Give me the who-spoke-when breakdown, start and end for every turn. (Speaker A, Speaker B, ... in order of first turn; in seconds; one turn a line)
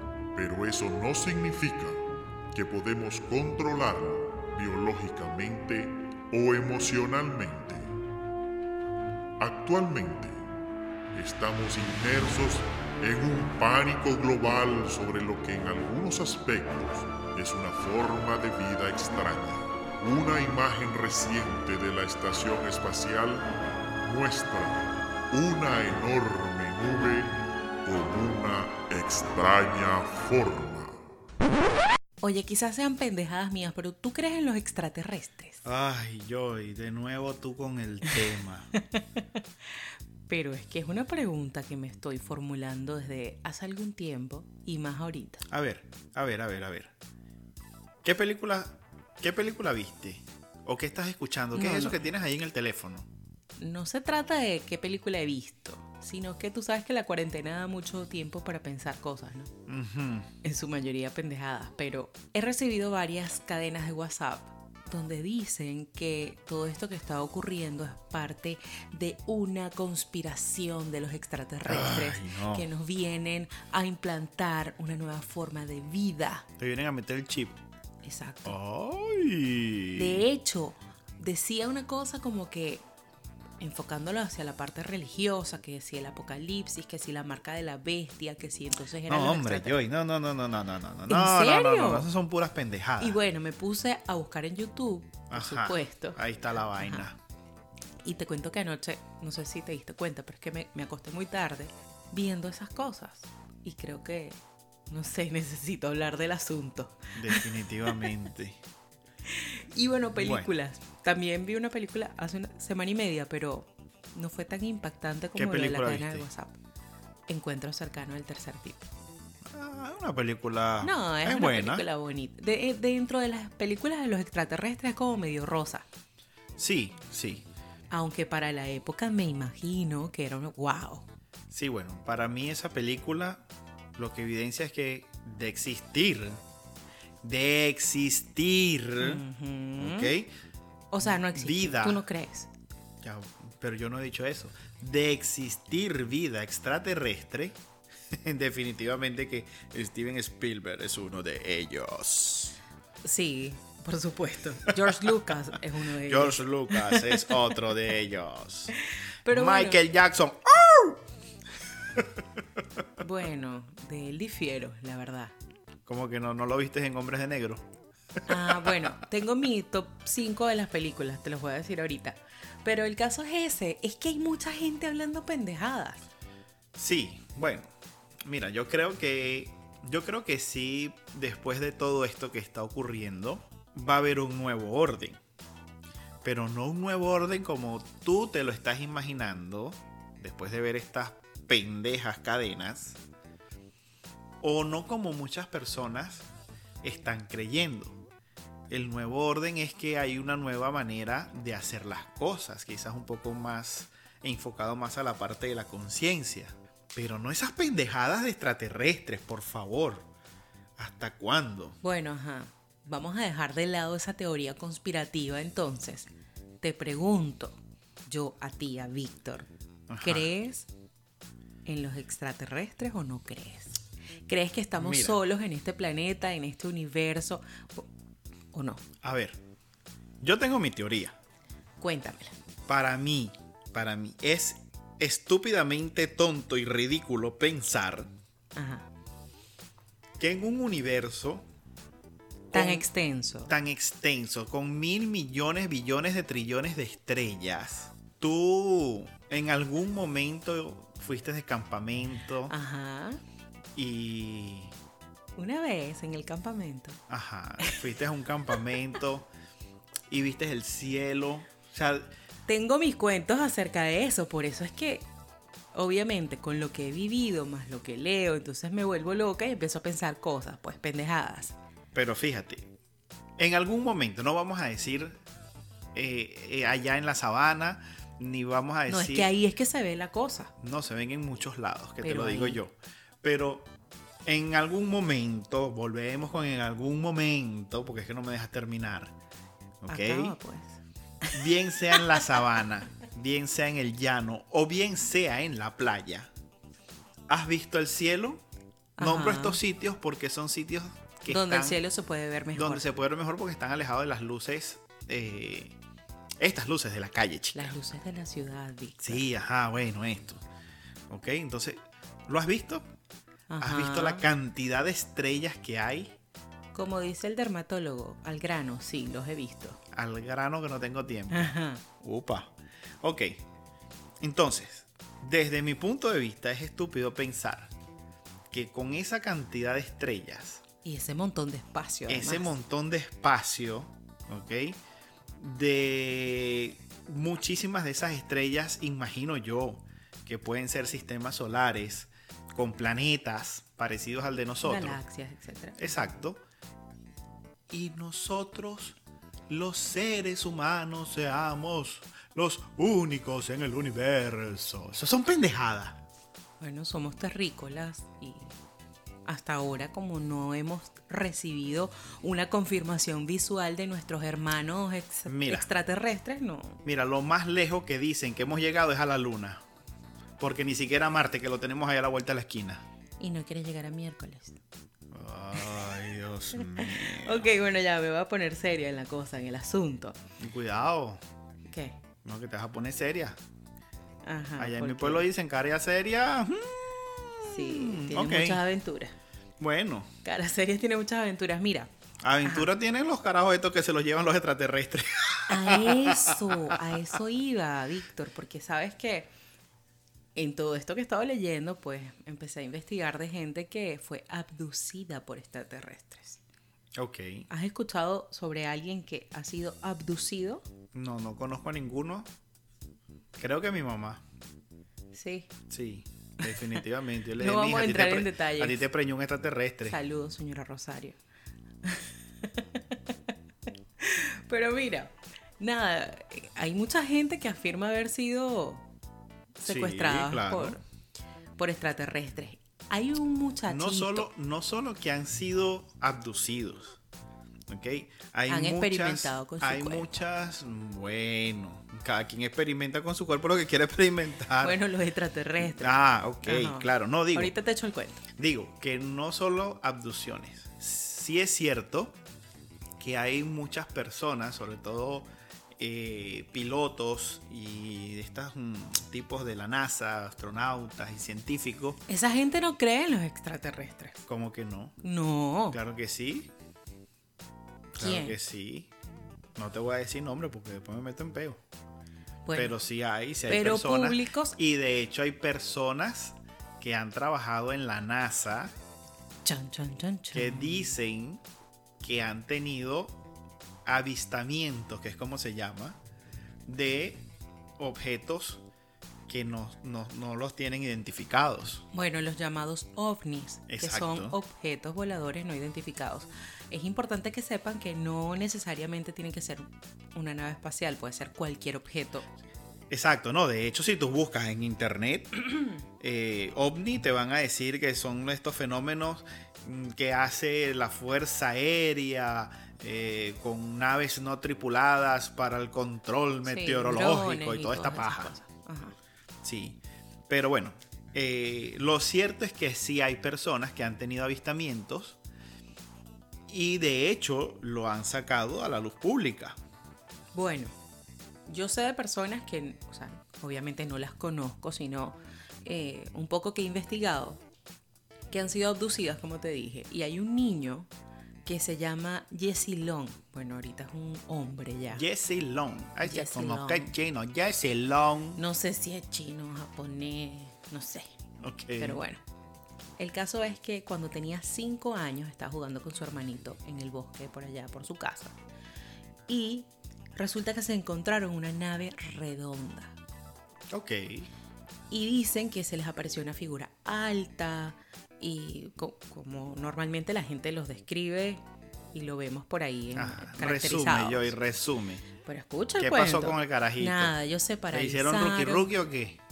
Speaker A: 0.3-2.0
Speaker A: 2.5-7.9
Speaker A: 9.4-10.4
Speaker A: 11.1-23.5
Speaker A: 24.0-31.0
Speaker B: 32.2-35.6
Speaker C: 35.6-38.7
Speaker B: 38.7-39.2
Speaker B: 40.3-45.5
Speaker C: 45.5-46.9
Speaker C: 48.0-53.1
Speaker B: 51.5-52.0
Speaker B: 53.6-59.5
Speaker C: 59.7-60.3
Speaker B: 60.4-76.5
Speaker C: 71.7-72.7
Speaker C: 76.6-77.6
Speaker B: 78.0-78.6
Speaker C: 78.5-80.2
Speaker B: 79.9-82.8
Speaker B: 83.6-89.8
Speaker C: 89.1-93.2
Speaker B: 91.1-92.1
Speaker B: 93.0-96.2
Speaker C: 95.3-97.2
Speaker B: 96.8-97.0
Speaker B: 98.0-104.4
Speaker B: 104.9-108.1
Speaker C: 107.2-108.6
Speaker B: 109.3-116.5
Speaker C: 110.2-110.5
Speaker C: 115.3-116.2
Speaker B: 117.3-118.9
Speaker C: 119.5-121.8
Speaker B: 120.8-125.8
Speaker C: 126.6-127.5
Speaker B: 127.9-131.1
Speaker C: 131.5-133.4
Speaker C: 133.9-136.4
Speaker C: 137.2-139.2
Speaker B: 139.0-140.1
Speaker C: 139.8-140.3
Speaker B: 140.9-142.5
Speaker C: 141.0-142.0
Speaker C: 143.0-147.6
Speaker C: 148.1-152.6
Speaker B: 153.0-157.4
Speaker C: 154.8-155.1
Speaker C: 156.0-158.7
Speaker B: 158.8-159.8
Speaker C: 159.3-161.0
Speaker C: 161.9-162.2
Speaker B: 163.0-165.3
Speaker C: 165.9-167.6
Speaker C: 168.2-168.9
Speaker B: 168.3-176.0
Speaker C: 176.7-177.7
Speaker C: 178.2-185.2
Speaker C: 186.2-193.0
Speaker C: 194.4-196.3
Speaker C: 196.8-198.0
Speaker C: 198.7-210.1
Speaker C: 210.8-211.8
Speaker B: 211.8-216.1
Speaker B: 216.6-219.5
Speaker C: 219.9-220.3
Speaker B: 220.0-220.7
Speaker B: 221.6-227.9
Speaker C: 224.8-225.2
Speaker B: 228.5-228.8
Speaker C: 229.0-229.4
Speaker C: 230.2-231.2
Speaker B: 231.8-232.3
Speaker C: 232.7-238.1
Speaker B: 238.5-238.9
Speaker C: 240.2-241.4
Speaker C: 242.5-242.9
Speaker B: 242.5-243.5
Speaker C: 243.5-252.5
Speaker B: 252.5-253.2
Speaker C: 253.7-254.7
Speaker B: 255.4-257.0
Speaker C: 257.1-259.3
Speaker C: 260.1-262.1
Speaker B: 262.5-265.1
Speaker B: 265.7-271.5
Speaker C: 271.9-272.7
Speaker C: 273.4-275.2
Speaker C: 275.9-279.3
Speaker B: 278.9-280.5
Speaker C: 280.6-283.7
Speaker B: 282.0-282.6
Speaker C: 284.2-289.1
Speaker C: 289.8-290.4
Speaker B: 289.9-292.4
Speaker C: 291.3-296.3
Speaker C: 297.3-298.4
Speaker B: 299.0-299.6
Speaker C: 299.0-301.8
Speaker B: 301.3-302.8
Speaker C: 302.5-305.8
Speaker C: 306.4-307.7
Speaker B: 307.5-309.2
Speaker C: 309.0-310.4
Speaker C: 311.1-312.9
Speaker B: 313.5-314.2
Speaker C: 313.6-316.1
Speaker B: 316.7-319.8
Speaker C: 319.9-323.4
Speaker B: 321.3-321.8
Speaker C: 324.2-327.7
Speaker C: 328.5-330.6
Speaker B: 330.8-332.5
Speaker C: 332.1-334.8
Speaker C: 335.4-345.0
Speaker B: 344.6-346.1
Speaker C: 345.8-346.4
Speaker C: 347.7-349.0
Speaker C: 349.5-356.0
Speaker B: 356.6-358.5
Speaker B: 359.2-366.8
Speaker C: 365.3-365.7
Speaker C: 366.8-369.6
Speaker C: 370.4-372.8
Speaker B: 373.2-374.6
Speaker C: 375.1-377.5
Speaker B: 376.5-380.2
Speaker C: 380.4-381.2
Speaker B: 381.7-382.0
Speaker C: 382.2-383.4
Speaker B: 384.2-385.2
Speaker C: 384.6-388.6
Speaker B: 387.4-389.1
Speaker C: 389.6-390.1
Speaker B: 390.2-391.9
Speaker C: 392.2-397.2
Speaker B: 392.4-392.7
Speaker B: 395.5-399.3
Speaker B: 400.3-406.4
Speaker C: 406.9-407.5
Speaker B: 407.5-410.6
Speaker C: 410.9-412.3
Speaker C: 413.4-414.2
Speaker B: 415.1-415.5
Speaker C: 415.7-420.0
Speaker B: 416.4-416.8
Speaker B: 417.4-418.8
Speaker B: 419.9-421.1
Speaker B: 421.8-423.3
Speaker B: 424.0-428.8
Speaker B: 429.6-430.8
Speaker C: 429.6-430.8
Speaker B: 431.6-434.3
Speaker C: 433.7-437.0
Speaker C: 437.7-444.8
Speaker B: 438.5-440.1
Speaker B: 444.6-448.2
Speaker C: 445.6-447.5
Speaker C: 448.4-452.2
Speaker C: 453.0-462.0
Speaker B: 462.1-464.2
Speaker C: 464.2-465.0
Speaker B: 465.0-465.8
Speaker C: 465.7-466.5
Speaker C: 467.9-468.9
Speaker B: 468.0-468.4
Speaker C: 469.6-471.6
Speaker B: 472.4-472.8
Speaker C: 472.5-478.7
Speaker B: 473.5-474.6
Speaker B: 479.4-480.9
Speaker C: 480.3-481.4
Speaker C: 482.0-483.2
Speaker C: 483.9-486.0
Speaker C: 486.6-488.6
Speaker C: 489.3-491.8
Speaker B: 491.9-502.2
Speaker C: 493.7-494.4
Speaker C: 502.9-518.3
Speaker B: 516.4-518.9
Speaker C: 519.4-525.2
Speaker C: 526.5-529.6
Speaker B: 530.3-530.7
Speaker B: 531.5-537.4
Speaker B: 538.3-540.9
Speaker B: 541.4-545.0
Speaker C: 544.9-548.4
Speaker B: 546.0-546.9
Speaker B: 548.4-551.1
Speaker C: 551.4-552.0
Speaker B: 551.8-552.2
Speaker B: 553.0-558.3
Speaker B: 559.3-562.9
Speaker C: 563.7-564.3
Speaker B: 564.9-571.4
Speaker B: 571.9-574.3
Speaker C: 572.9-575.0
Speaker B: 575.2-578.7
Speaker C: 575.8-577.1
Speaker C: 577.7-579.2